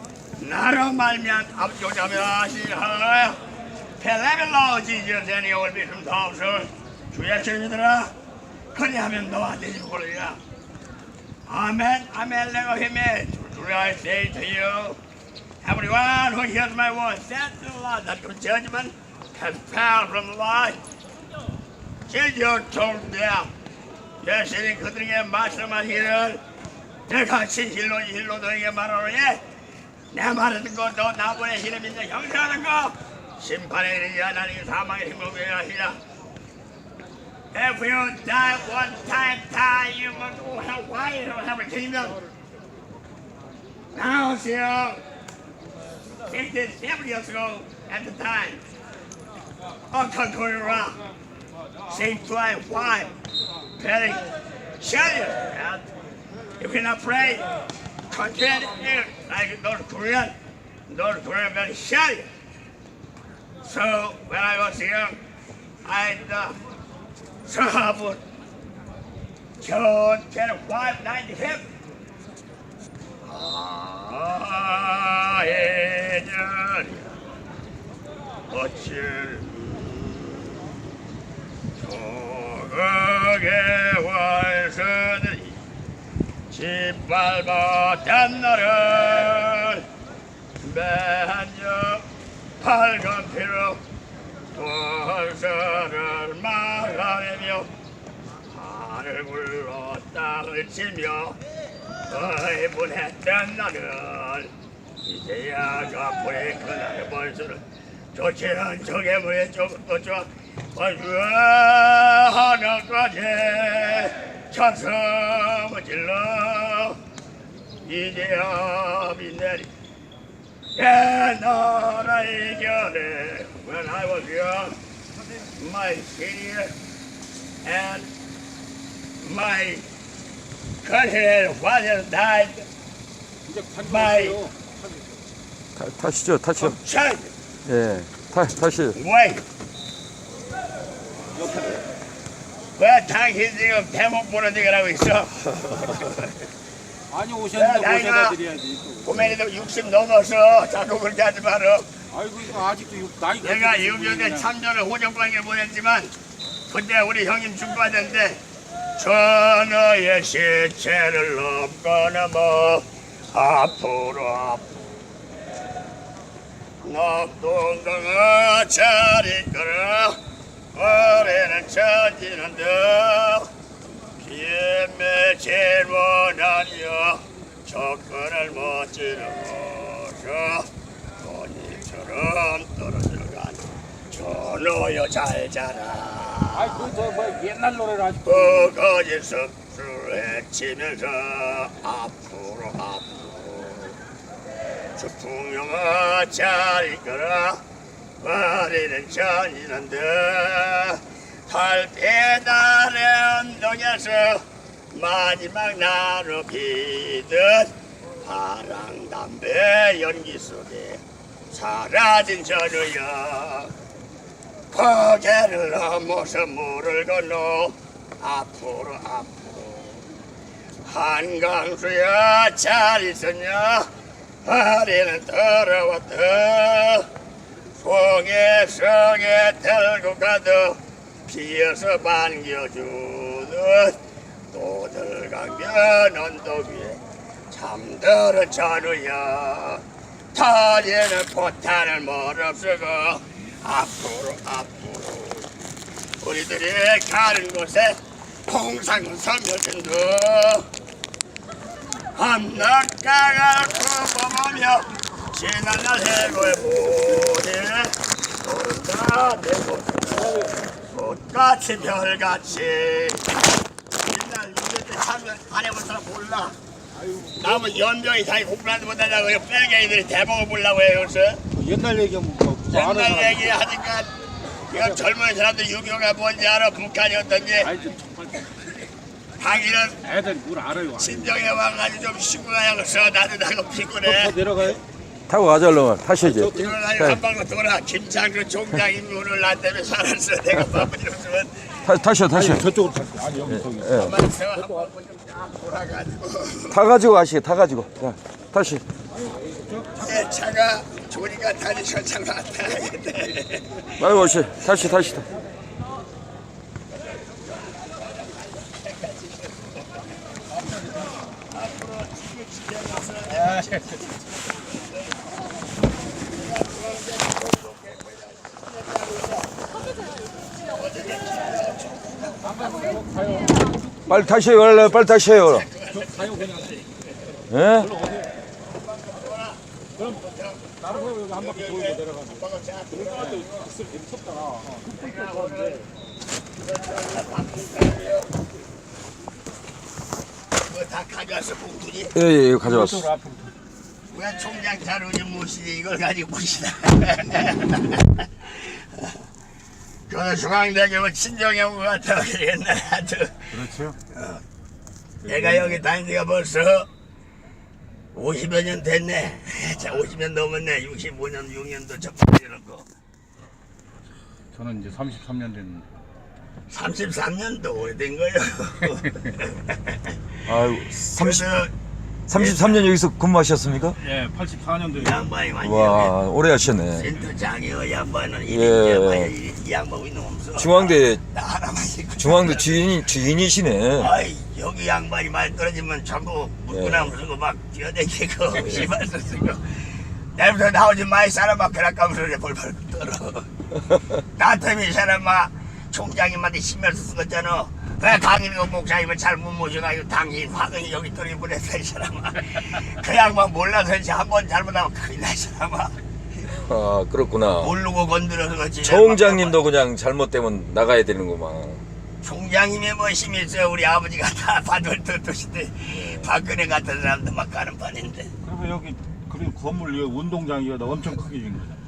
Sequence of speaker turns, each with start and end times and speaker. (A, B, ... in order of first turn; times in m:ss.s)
0:00.4-0:03.4 A
0:04.0-0:08.1 A
0:08.7-0:10.4 A
0:11.5-0:15.0 A
0:15.6-0:20.8 A
0:22.0-0:23.5 A
0:24.2-0:26.4 A
0:27.1-0:29.4 A
0:30.1-0:36.0 A
0:37.5-0:42.2 A
0:43.9-0:45.0 A
0:46.3-0:48.6 A
0:49.9-0:51.0 A
0:51.9-0:53.1 A
0:53.8-0:54.3 A
0:54.8-0:55.8 A
0:56.6-0:57.5 A
0:58.1-1:00.3 A
1:00.9-1:02.3 A
1:03.6-1:05.2 A
1:05.8-1:06.6 A
1:07.4-1:08.2 A
1:09.6-1:11.7 A
1:13.2-1:17.1 A
1:18.5-1:20.6 A
1:21.8-1:25.6 A
1:26.5-1:29.8 A
1:30.6-1:32.0 A
1:32.6-1:33.8 A
1:34.5-1:37.7 A
1:38.5-1:41.4 A
1:42.1-1:44.5 A
1:45.0-1:57.0 A
1:57.8-1:59.7 A
2:00.8-2:04.8 A
2:05.5-2:06.7 A
2:07.6-2:08.1 A
2:09.2-2:09.9 A
2:10.8-2:12.7 A
2:13.4-2:15.2 B
2:13.8-2:14.4 A
2:15.8-2:16.8 C
2:16.6-2:17.3 A
2:17.6-2:19.0 C
2:18.9-2:19.4 A
2:21.4-2:21.7 B
2:21.5-2:21.8 A
2:22.8-2:26.4 A
2:27.1-2:29.4 B
2:27.5-2:28.4 A
2:29.0-2:31.9 A
2:32.1-2:34.5 B
2:33.4-2:36.1 A
2:36.7-2:38.4 A
2:39.0-2:44.8 A
2:46.8-2:50.2 A
2:50.7-2:53.5 A
2:54.2-3:00.7 A
3:01.2-3:06.9 A
3:06.5-3:08.7 B
3:08.2-3:14.0 A
3:15.0-3:17.6 A
3:18.2-3:33.7 A
3:34.7-3:40.0 A
3:40.8-3:43.9 A
3:44.4-3:47.1 A
3:47.8-3:54.0 A
3:54.5-4:05.5 A
4:06.2-4:10.7 A
4:12.1-4:23.4 A
4:20.2-4:20.6 B
4:24.0-4:26.6 A
4:27.1-4:27.6 B
4:27.4-4:31.4 A
4:31.5-4:33.5 B
4:32.7-4:34.1 A
4:34.7-4:37.7 A
4:34.7-4:35.0 B
4:37.6-4:38.6 B
4:39.4-4:40.0 A
4:40.0-4:41.4 B
4:41.0-4:44.8 A
4:44.0-4:44.8 B
4:45.3-4:47.2 C
4:46.2-4:46.7 B
4:46.2-4:51.9 A
4:51.8-4:52.7 C
4:52.3-4:54.2 B
4:53.5-4:54.2 C
4:53.9-4:56.8 A
4:56.7-4:58.8 C
4:59.7-5:00.0 B
4:59.9-5:04.9 A
5:04.0-5:05.3 C
5:07.0-5:10.0 A
5:11.5-5:14.1 A
5:13.4-5:13.7 B
5:16.2-5:19.6 A
5:20.6-5:22.4 A
5:22.4-5:24.2 B
5:24.1-5:25.7 C
5:24.5-5:27.0 A
5:25.9-5:26.8 B
5:27.5-5:27.9 C
5:27.8-5:28.3 B
5:28.7-5:33.6 A
5:30.8-5:32.4 B
5:32.9-5:35.7 B
5:34.9-5:35.9 A
5:36.6-5:38.4 A
5:40.6-5:42.2 A
5:42.1-5:43.1 C
5:42.6-5:43.5 B
5:44.1-5:49.2 A
5:50.1-5:54.4 A
5:53.5-5:54.0 B
5:55.2-5:55.8 B
5:55.2-5:56.9 A
5:58.1-6:02.9 A
6:04.5-6:05.8 B
6:06.7-6:10.5 A
6:10.4-6:11.5 C
6:11.0-6:11.7 A
6:12.3-6:14.0 C
6:12.3-6:12.9 A
6:14.0-6:15.2 B
6:14.9-6:16.2 A
6:15.6-6:17.1 C
6:16.9-6:23.1 A
6:18.5-6:19.3 C
6:20.6-6:21.2 C
6:22.2-6:24.1 C
6:24.0-6:33.5 A
6:26.7-6:27.1 C
6:34.2-6:46.0 A
6:46.5-6:47.7 C
6:47.6-6:49.7 A
6:48.8-6:51.8 C
6:52.2-6:58.3 A
6:55.9-6:56.3 C
6:58.4-7:01.8 B